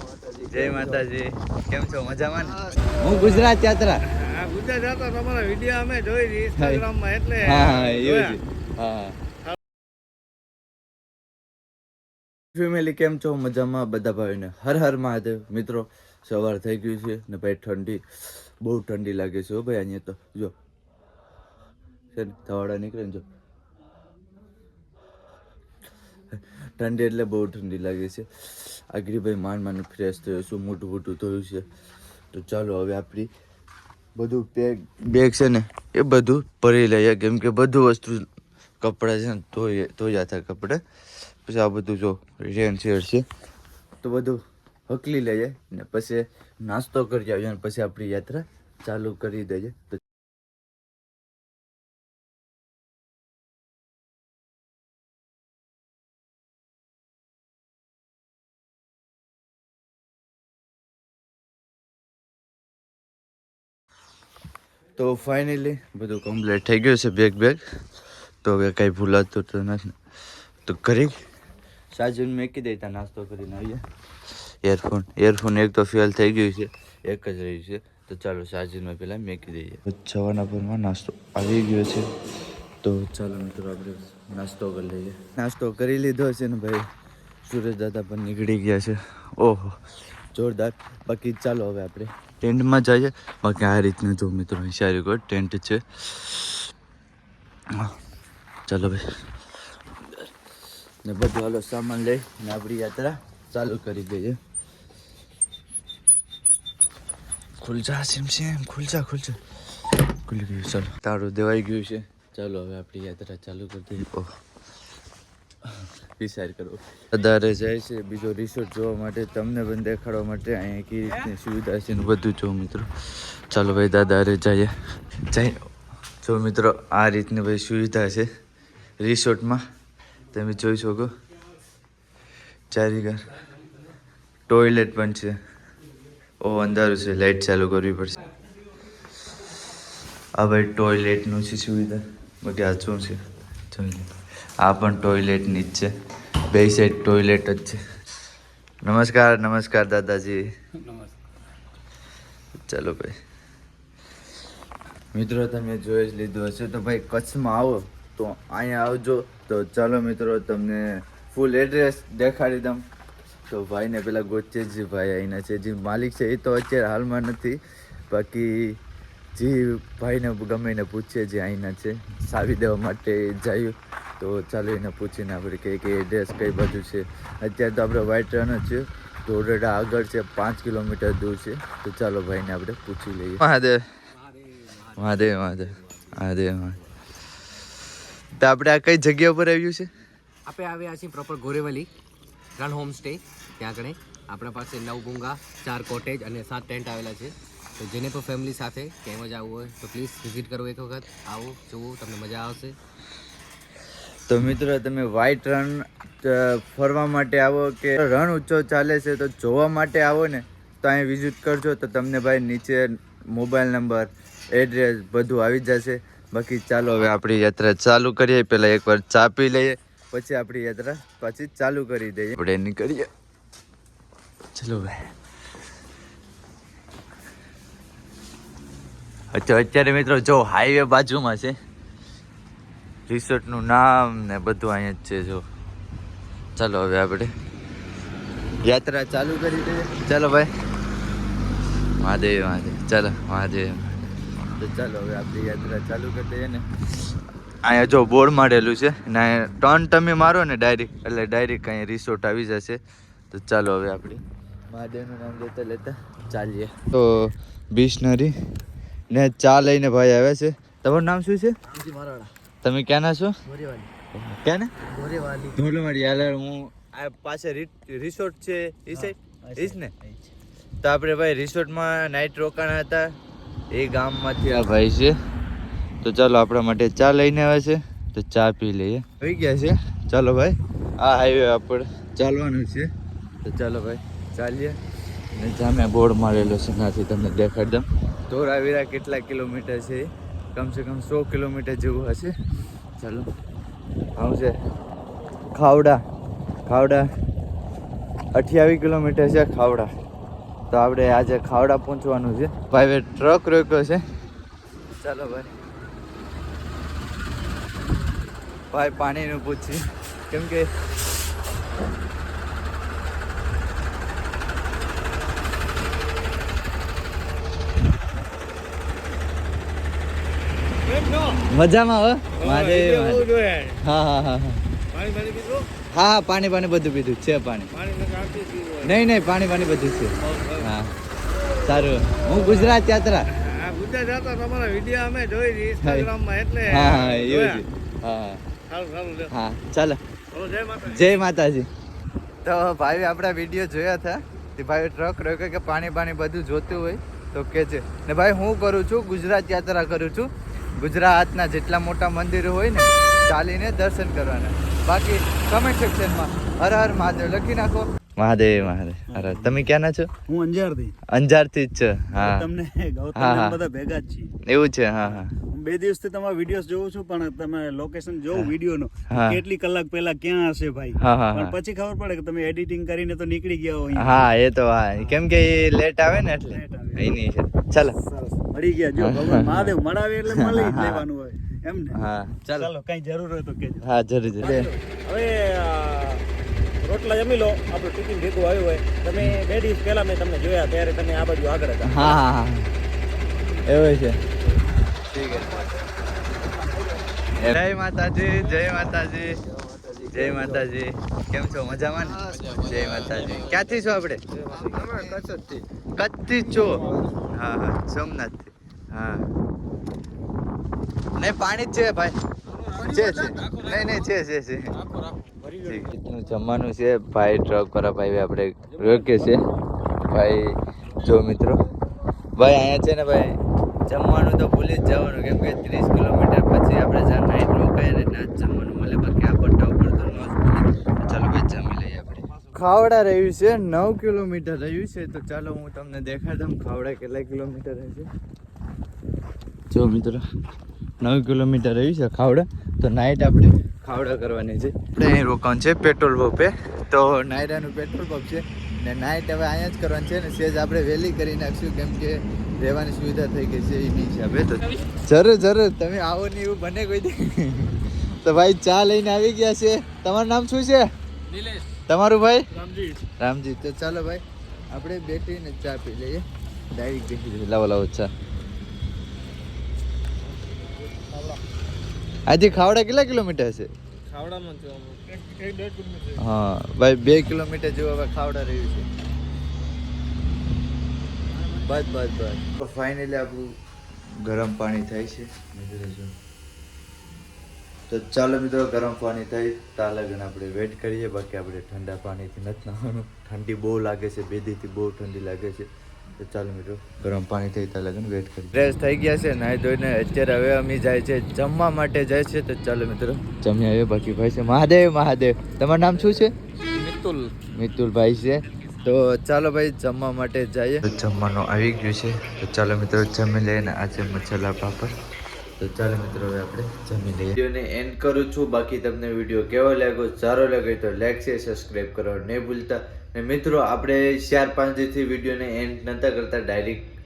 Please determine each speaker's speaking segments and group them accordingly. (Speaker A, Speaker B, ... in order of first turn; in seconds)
Speaker A: 0.4-4.0, 6.5-6.8, 7.4-9.2, 12.5-18.0, 18.6-20.5, 22.1-23.2, 26.3-31.6, 32.3-33.3, 34.1-38.2, 38.8-40.8, 41.5-43.2, 44.0-50.0, 65.0-67.6, 68.4-69.9, 70.7-71.1, 71.9-73.8, 74.6-82.1, 82.8-86.8, 87.5-89.8, 90.3-96.6, 98.7-99.0, 101.0-104.4, 107.6-109.4, 110.2-114.3, 116.2-122.9, 123.5-124.7, 125.3-125.6, 126.2-128.3, 129.0-129.6, 130.3-131.1, 132.7-133.2, 134.5-135.3, 136.4-138.2, 140.4-143.2, 143.7-144.1, 144.6-145.9, 146.5-147.8, 148.8-150.4, 152.7-153.1, 155.1-162.8, 163.5-167.6, 168.1-168.8, 169.3-183.8, 184.9-186.8, 188.4-189.9, 204.3-223.1, 224.5-225.1, 229.3-231.5, 233.1-235.4, 236.6-237.3, 238.7-240.5, 242.0-246.7, 247.6-252.8, 253.3-258.3, 259.1-261.5, 262.6-263.3, 264.1-264.7, 265.5-269.9, 270.8-273.1, 273.7-275.1, 276.0-282.9, 283.4-284.8, 285.4-292.3, 293.0-293.3, 294.2-294.5, 295.5-296.0, 296.6-297.1, 298.3-299.9, 300.7-304.0, 305.0-305.6, 308.7-310.7, 321.5-323.3, 323.8-324.6, 325.9-327.7, 328.8-330.9, 331.6-333.3, 335.8-336.1, 336.7-338.4, 339.3-340.0, 340.8-341.7, 342.4-360.1, 361.1-362.5, 363.1-363.6, 364.4-365.3, 369.1-369.4, 371.0-371.6, 373.9-378.0, 379.0-379.7, 380.3-381.0, 381.9-382.7, 383.8-384.7, 391.8-392.7, 393.6-394.2, 395.1-395.8, 397.4-399.4, 400.0-404.2, 405.9-409.3, 411.2-412.1, 412.7-414.7, 415.6-419.4, 420.1-421.6, 422.4-423.3, 423.9-438.1, 439.7-440.2, 441.0-460.9, 461.9-462.5, 463.2-468.1, 472.3-473.7, 476.1-478.9, 481.6-483.5, 484.1-486.1, 487.9-506.3, 507.4-514.9, 515.6-526.9
Speaker B: 4.2-8.3, 320.9-321.4, 322.4-323.8, 324.9-325.7, 327.7-329.0, 330.2-330.7, 332.4-332.8, 333.3-337.6, 338.7-339.3, 340.3-341.3, 404.5-405.6, 474.1-475.2
Speaker C: 184.2-185.2, 190.4-191.9, 192.6-202.8
Speaker D: 261.8-262.2, 263.5-263.9, 264.9-265.5, 269.1-270.3, 359.1-359.6, 360.3-360.9, 362.1-364.3, 365.0-374.3, 376.5-377.2, 378.0-382.0, 382.5-383.8, 475.2-476.1
Speaker E: 384.9-386.1, 386.8-391.8